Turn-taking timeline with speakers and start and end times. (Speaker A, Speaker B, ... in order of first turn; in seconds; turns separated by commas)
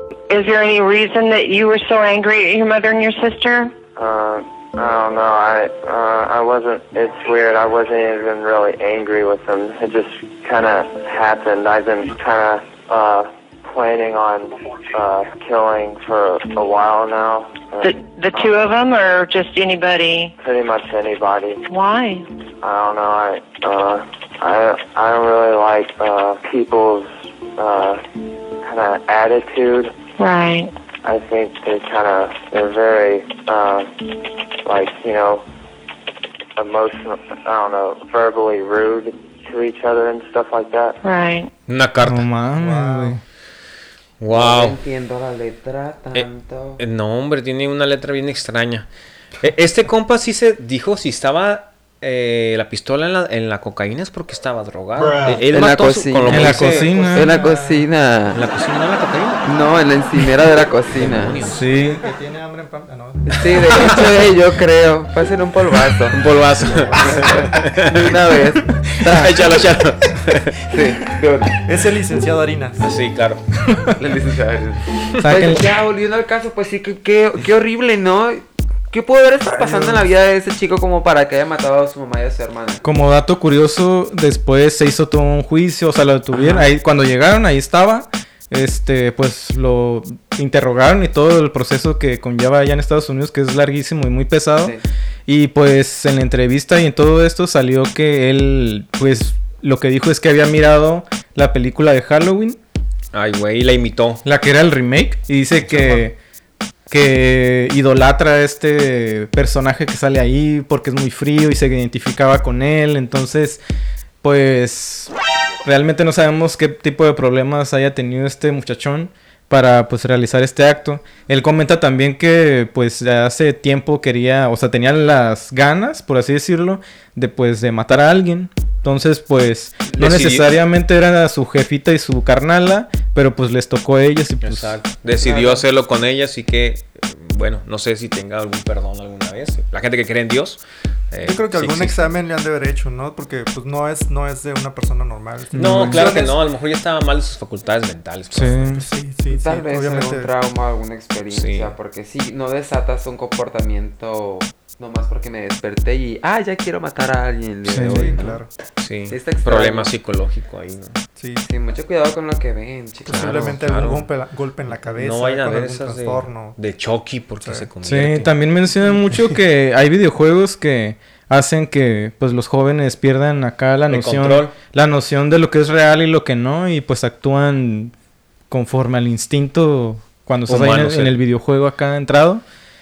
Speaker A: 0.3-3.8, Speaker B: 3.9-18.6, Speaker A: 17.8-20.3, Speaker B: 20.4-21.6, Speaker A: 21.7-22.3, Speaker B: 22.6-28.0, Speaker B: 28.6-30.0, Speaker A: 30.2-30.7, Speaker B: 31.0-33.9, Speaker B: 34.6-35.4, Speaker B: 36.5-41.0, Speaker A: 41.0-41.5, Speaker C: 41.7-42.3, Speaker D: 42.0-43.2, Speaker E: 42.6-43.2, Speaker C: 44.2-44.8, Speaker F: 44.3-46.8, Speaker C: 46.1-48.9, Speaker C: 49.4-56.9, Speaker F: 55.5-58.4, Speaker D: 56.3-57.4, Speaker E: 56.6-57.9, Speaker C: 58.3-59.4, Speaker F: 59.4-61.4, Speaker C: 60.9-61.6, Speaker D: 61.5-62.0, Speaker E: 61.7-63.5, Speaker F: 63.2-66.2, Speaker C: 66.1-68.1, Speaker E: 66.6-67.6, Speaker F: 67.0-69.3, Speaker C: 68.9-70.6, Speaker F: 70.7-71.5, Speaker E: 71.6-72.8, Speaker C: 72.8-73.4, Speaker F: 74.0-82.8, Speaker D: 75.2-75.6, Speaker E: 79.5-80.1, Speaker D: 82.8-94.8, Speaker F: 86.3-86.7, Speaker D: 95.3-102.6, Speaker C: 103.1-104.2, Speaker D: 104.2-106.2, Speaker E: 105.7-106.1, Speaker D: 106.9-113.6, Speaker D: 114.2-115.1, Speaker D: 115.6-134.8, Speaker C: 129.9-130.5, Speaker C: 134.4-142.2, Speaker E: 135.2-135.6, Speaker E: 141.2-146.4, Speaker D: 145.5-146.1, Speaker C: 145.6-148.7, Speaker D: 148.3-148.8, Speaker E: 148.5-150.3, Speaker F: 149.3-158.4, Speaker C: 151.3-151.7, Speaker D: 157.7-158.2, Speaker E: 157.8-158.5, Speaker C: 158.8-161.0, Speaker F: 159.1-159.9, Speaker E: 161.2-161.5, Speaker F: 161.4-163.5, Speaker E: 163.1-166.6, Speaker C: 163.1-164.1, Speaker C: 164.9-168.3, Speaker E: 167.4-167.7, Speaker D: 167.8-177.9, Speaker C: 173.9-174.5, Speaker D: 178.5-182.4, Speaker C: 180.5-181.2